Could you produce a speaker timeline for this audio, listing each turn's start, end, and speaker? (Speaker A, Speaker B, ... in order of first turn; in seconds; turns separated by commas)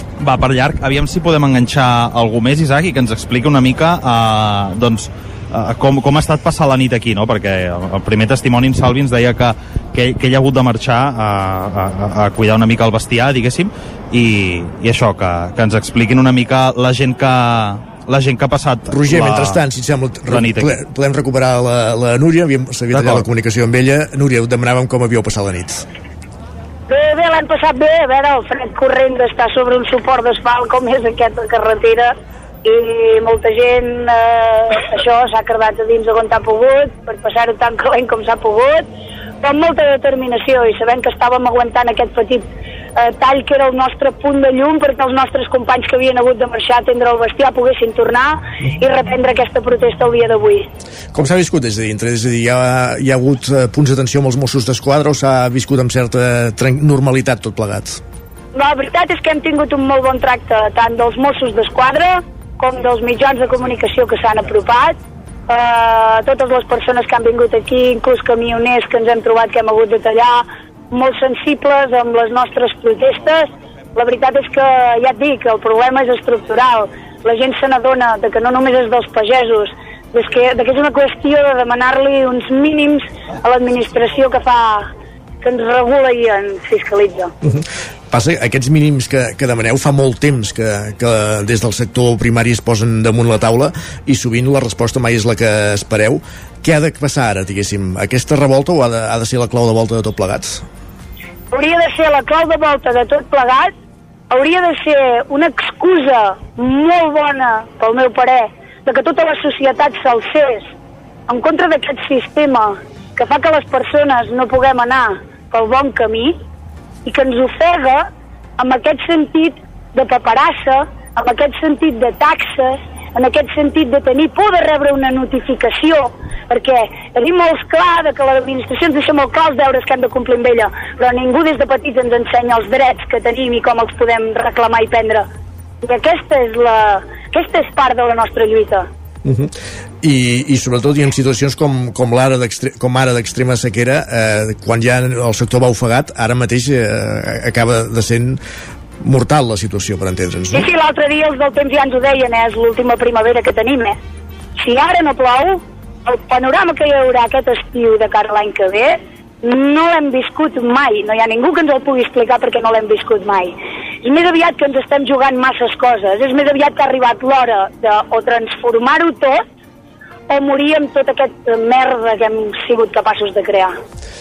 Speaker A: 0.2-19.6, Speaker B: 18.9-25.8, Speaker A: 20.3-20.7, Speaker A: 22.9-23.2, Speaker C: 26.9-38.9, Speaker C: 39.4-50.7, Speaker B: 51.1-58.0, Speaker C: 58.5-65.0, Speaker C: 65.5-84.9, Speaker C: 85.4-87.3, Speaker B: 87.4-100.6, Speaker C: 101.5-103.7, Speaker C: 104.3-110.7, Speaker C: 111.3-116.3, Speaker C: 117.0-118.0, Speaker C: 118.6-135.3, Speaker C: 135.8-138.9, Speaker B: 139.2-148.4, Speaker B: 149.0-150.7, Speaker C: 150.5-154.0, Speaker C: 154.6-169.4, Speaker C: 170.3-173.8